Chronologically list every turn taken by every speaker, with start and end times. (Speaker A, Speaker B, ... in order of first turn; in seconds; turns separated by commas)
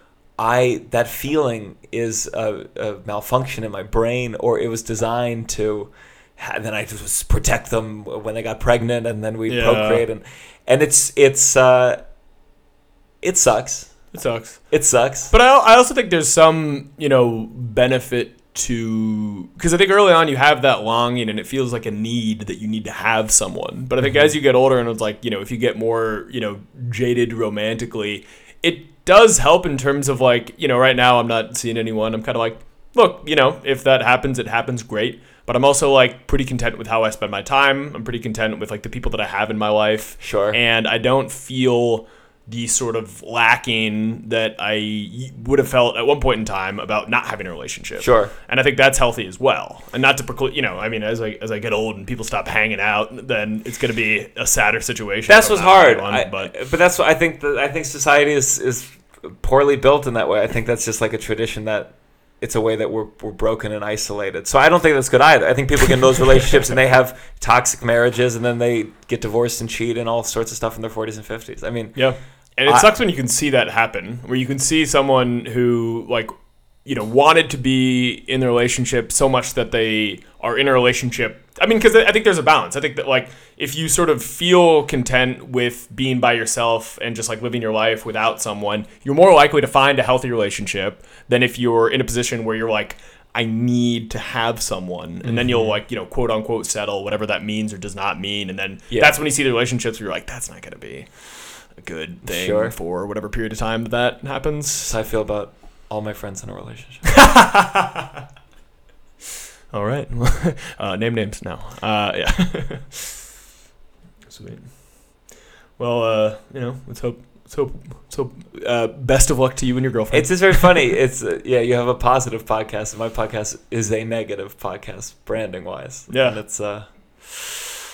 Speaker A: 0.4-12.0, Speaker B: 9.5-10.0, Speaker A: 13.2-13.9, Speaker B: 14.1-14.6, Speaker A: 14.7-15.3, Speaker B: 15.3-56.5, Speaker A: 40.2-40.6, Speaker A: 48.0-48.3, Speaker A: 55.3-72.0, Speaker B: 72.0-76.3, Speaker B: 76.8-101.1, Speaker A: 95.3-95.7, Speaker A: 98.9-99.1, Speaker B: 101.8-105.0, Speaker A: 102.3-102.7, Speaker A: 104.9-107.1, Speaker B: 107.1-108.1, Speaker B: 109.7-113.2, Speaker B: 114.3-114.8, Speaker B: 115.8-120.8, Speaker A: 120.1-127.8, Speaker B: 126.1-126.4